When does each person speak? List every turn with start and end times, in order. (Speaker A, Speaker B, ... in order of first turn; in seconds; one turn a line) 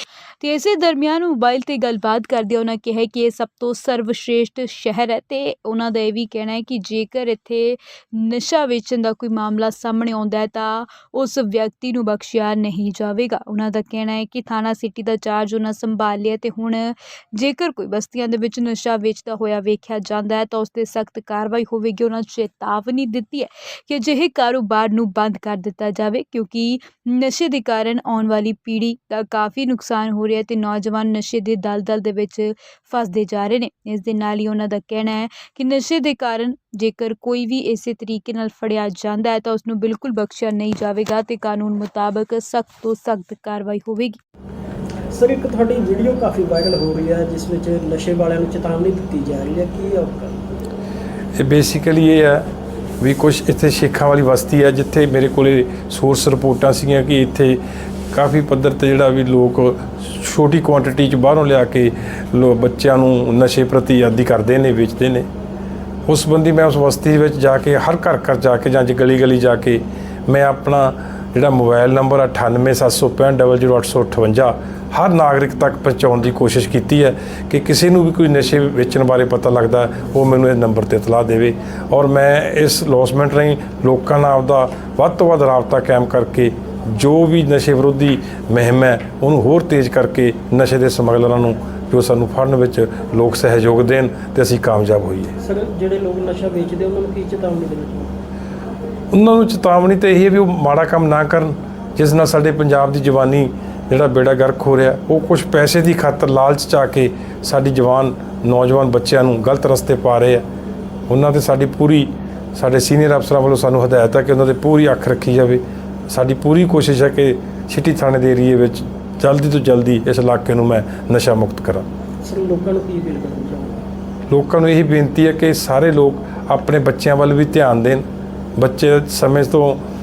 Speaker A: 0.4-44.2
Speaker B: 45.1-50.4
Speaker C: 51.4-52.5
Speaker C: 53.0-57.6
Speaker C: 58.1-65.2
Speaker C: 66.0-95.3
Speaker B: 95.4-98.2
Speaker C: 99.1-110.4
Speaker C: 111.1-121.8
Speaker B: 122.2-123.8
Speaker C: 124.3-128.0
Speaker C: 128.6-129.8